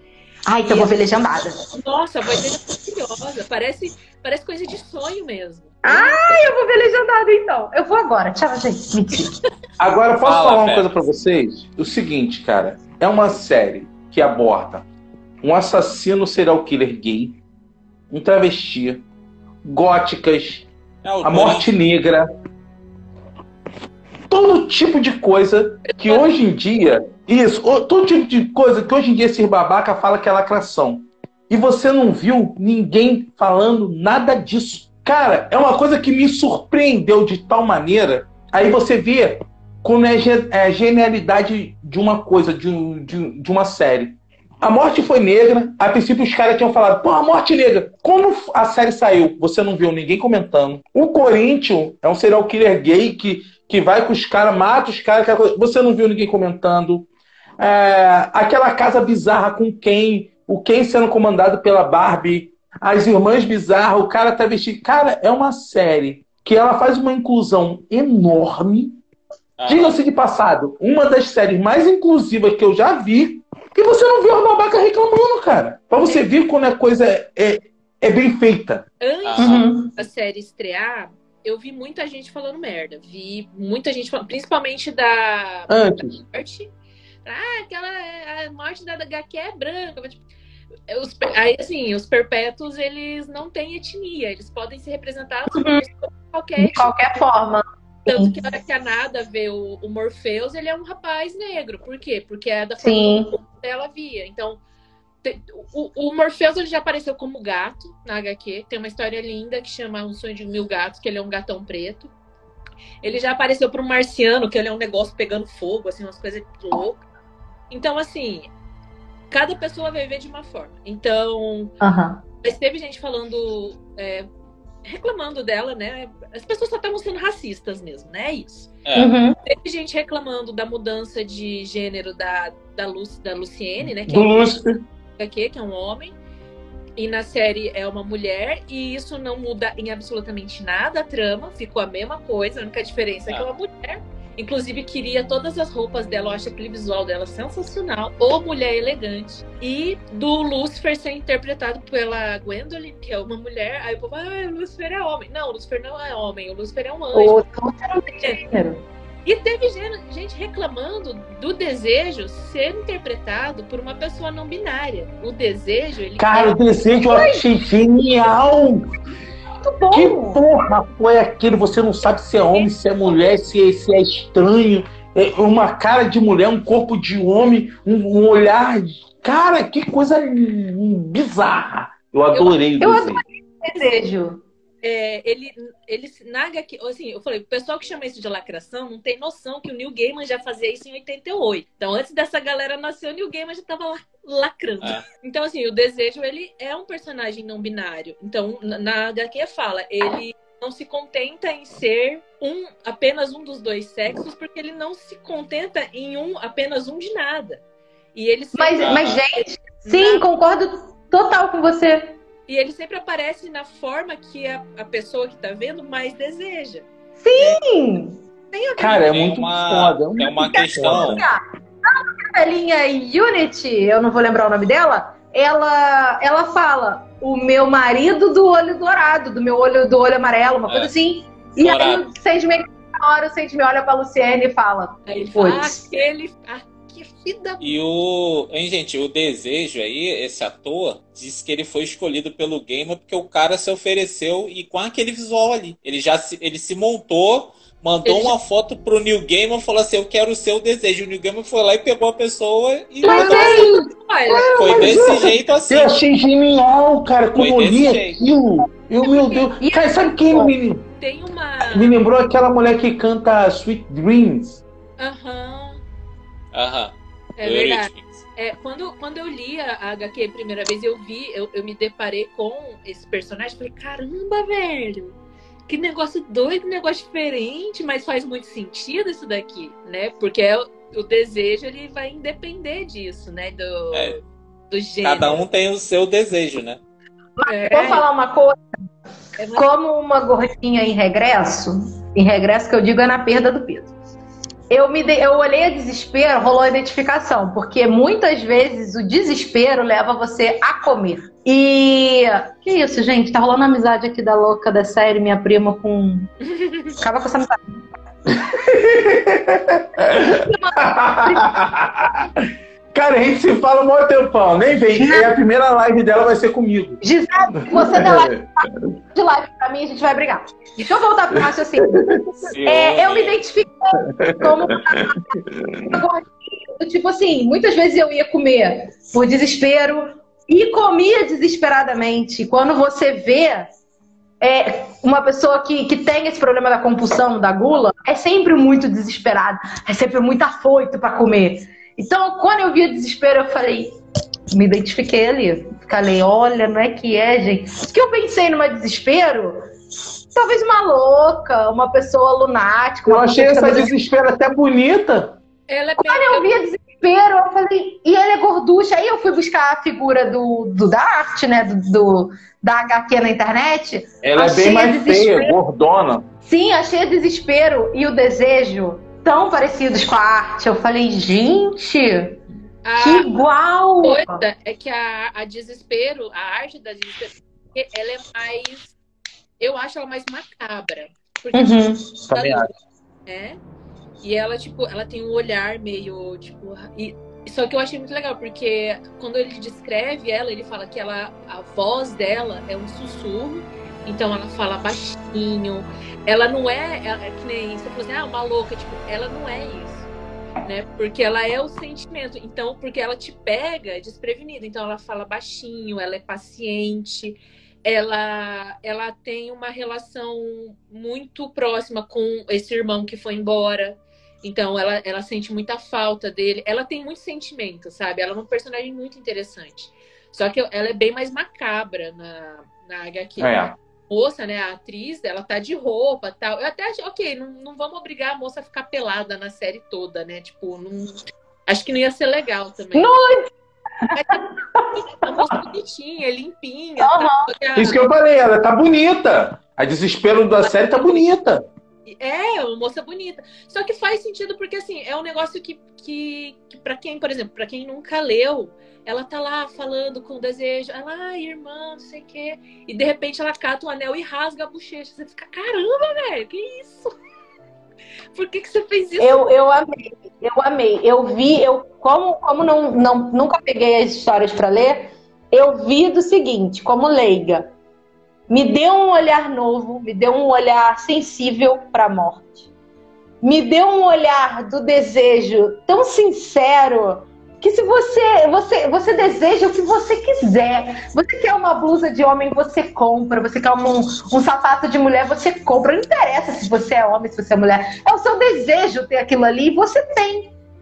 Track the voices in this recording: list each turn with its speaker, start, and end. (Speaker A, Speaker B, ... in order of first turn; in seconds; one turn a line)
Speaker A: 0.5-1.6
Speaker B: 0.7-0.9
Speaker B: 1.8-6.4
Speaker A: 5.8-9.3
Speaker C: 9.8-14.8
Speaker D: 10.2-11.0
Speaker C: 15.4-17.4
Speaker C: 18.1-19.0
Speaker C: 19.6-20.6
Speaker D: 21.0-21.7
Speaker C: 21.2-22.3
Speaker C: 24.3-57.1
Speaker B: 25.9-26.2
Speaker C: 57.6-69.0
Speaker D: 69.6-70.0
Speaker C: 69.7-78.8
Speaker B: 79.0-86.7
Speaker D: 79.2-79.7
Speaker A: 79.4-79.9
Speaker C: 85.7-86.2
Speaker B: 87.2-90.2
Speaker B: 90.9-96.9
Speaker A: 95.5-95.8
Speaker A: 96.6-98.3
Speaker B: 98.0-104.6
Speaker A: 102.8-103.3
Speaker B: 105.2-112.1
Speaker B: 113.0-117.0
Speaker B: 117.7-118.5
Speaker B: 119.3-121.7
Speaker A: 121.8-122.2
Speaker B: 122.4-124.3
Speaker B: 124.8-128.7
Speaker D: 128.8-129.1
Speaker A: 128.9-129.4
Speaker B: 129.4-134.6
Speaker C: 134.0-134.8
Speaker B: 135.2-136.1
Speaker B: 137.0-157.4
Speaker A: 157.1-158.8
Speaker B: 159.2-166.6
Speaker C: 166.2-168.9
Speaker A: 167.0-167.4
Speaker A: 169.6-170.4
Speaker C: 169.9-183.2
Speaker B: 172.5-173.4
Speaker B: 182.3-182.6
Speaker A: 182.8-184.4
Speaker B: 184.8-207.6
Speaker B: 208.1-209.1
Speaker A: 208.5-212.2
Speaker D: 208.8-209.2
Speaker B: 209.8-210.2
Speaker B: 212.5-217.6
Speaker A: 217.2-218.2
Speaker B: 218.5-219.1
Speaker C: 218.8-221.2
Speaker D: 219.1-221.2
Speaker A: 220.5-235.8
Speaker D: 230.7-230.9
Speaker D: 231.6-232.1
Speaker B: 235.1-237.8
Speaker D: 237.6-253.7
Speaker B: 248.0-248.3
Speaker A: 253.0-254.9
Speaker B: 253.1-254.7
Speaker C: 253.1-260.9
Speaker D: 254.6-255.9
Speaker D: 257.4-258.2
Speaker B: 259.1-259.5
Speaker A: 259.6-260.5
Speaker B: 261.0-261.9
Speaker C: 261.6-264.6
Speaker B: 265.0-265.8
Speaker D: 266.5-268.2
Speaker B: 267.4-275.1
Speaker B: 275.7-285.4
Speaker D: 283.9-284.2
Speaker D: 285.0-286.8
Speaker A: 287.4-288.6
Speaker B: 287.4-288.1
Speaker B: 289.4-289.8
Speaker A: 289.6-293.9
Speaker A: 294.7-306.3
Speaker B: 306.5-307.0
Speaker A: 307.0-307.8
Speaker C: 308.4-312.3
Speaker A: 310.0-311.4
Speaker C: 312.9-317.0
Speaker A: 315.0-315.3
Speaker A: 317.0-333.7
Speaker C: 317.6-318.6
Speaker C: 321.4-322.1
Speaker D: 322.4-323.4
Speaker C: 324.2-326.0
Speaker A: 334.4-343.9
Speaker A: 344.5-349.7
Speaker A: 350.3-353.9
Speaker C: 353.1-355.4
Speaker B: 355.7-356.5
Speaker A: 356.0-365.5
Speaker C: 364.2-366.2
Speaker A: 366.4-372.4
Speaker B: 372.8-373.3
Speaker A: 373.0-374.4
Speaker B: 374.0-378.9
Speaker B: 379.6-382.7
Speaker A: 381.5-382.2
Speaker C: 382.3-382.7
Speaker B: 383.2-383.6
Speaker B: 384.2-400.1
Speaker B: 400.6-433.1
Speaker C: 423.4-423.8
Speaker A: 432.9-433.5
Speaker A: 434.0-434.9
Speaker B: 434.1-434.4
Speaker B: 435.2-438.0
Speaker A: 437.0-437.5
Speaker C: 437.8-441.6
Speaker B: 440.6-441.3
Speaker B: 442.1-457.1
Speaker B: 458.3-459.5
Speaker A: 459.2-467.7
Speaker A: 468.5-472.6
Speaker A: 473.4-490.5